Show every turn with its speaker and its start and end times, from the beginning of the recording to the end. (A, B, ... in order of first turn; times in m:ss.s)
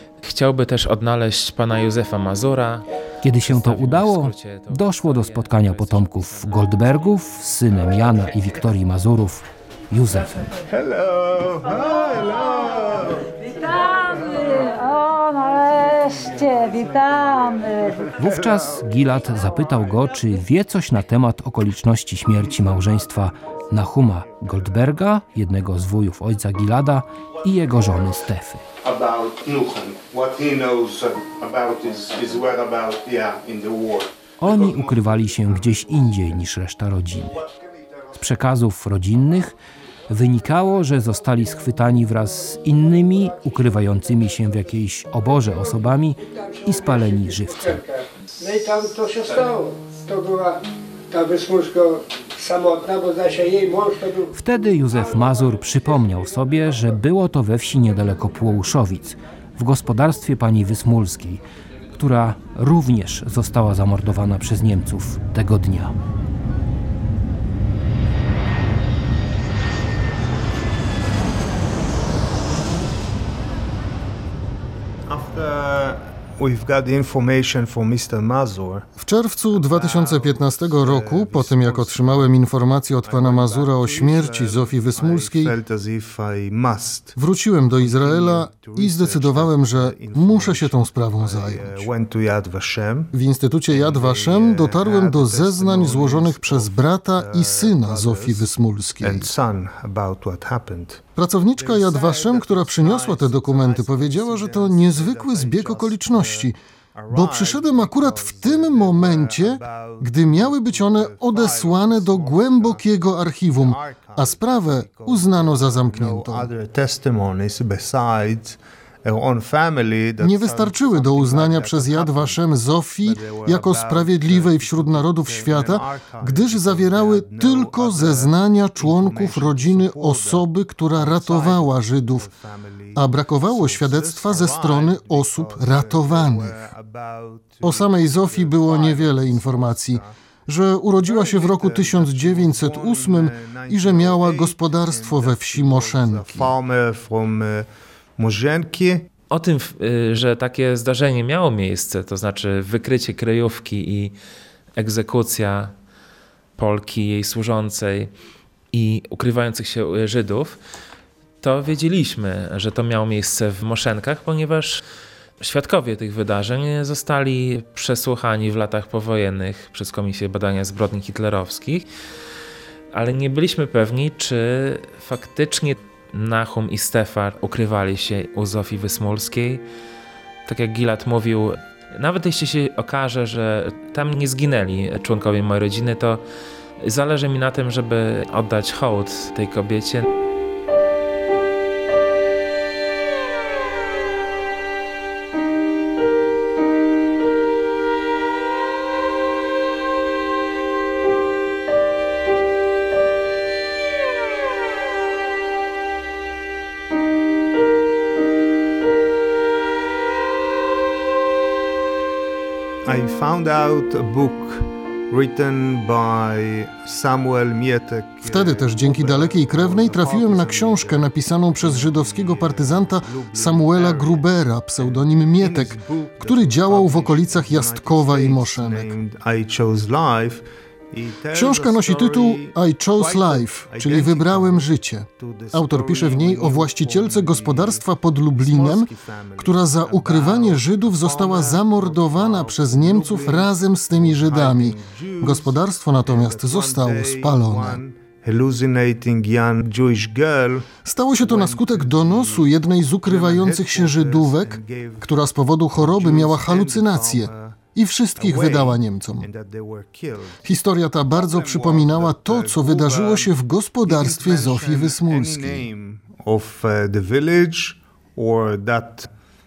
0:00.2-0:07.4 A
0:03.2-0:10.5 B
0:10.7-0:13.4 C
0:13.5-0:18.1 D
0:18.2-0:28.6 B
0:28.8-0:36.3 C
0:34.4-0:37.4 B
0:38.1-0:39.5 B
0:40.1-0:47.8 B
0:45.4-0:54.3 E
0:49.3-0:49.5 A
0:54.3-1:01.4 B
0:54.9-0:56.9 E
1:02.0-1:05.9 B
1:15.0-1:18.9 C
1:19.0-1:25.5 F
1:19.5-1:22.3 C
1:23.0-1:27.2 C
1:27.2-1:31.9 F
1:27.8-1:33.1 C
1:33.1-1:39.3 F
1:33.7-1:38.5 C
1:39.0-1:41.0 C
1:41.2-1:46.6 F
1:41.6-1:52.9 C
1:47.1-1:56.5 F
1:53.4-2:02.4 C
2:00.2-2:12.3 F
2:03.0-2:20.1 C
2:13.0-2:16.7 F
2:17.6-2:26.5 F
2:21.0-2:29.0 C
2:29.3-2:34.1 A
2:34.8-2:35.7 A
2:36.6-2:38.1 A
2:38.7-2:40.6 A
2:41.4-2:44.8 A
2:45.4-2:51.9 A
2:52.9-2:59.6 A
3:00.4-3:06.2 A
3:06.8-3:10.0 A
3:32.8-3:41.0 C
3:38.2-3:48.9 F
3:41.6-3:44.3 C
3:44.8-4:12.5 C
3:51.3-4:07.8 F
4:10.8-4:19.3 F
4:13.0-4:15.1 C
4:15.7-4:17.6 C
4:18.2-4:20.5 C
4:20.4-4:25.7 F
4:21.1-4:23.3 C
4:23.8-4:29.1 C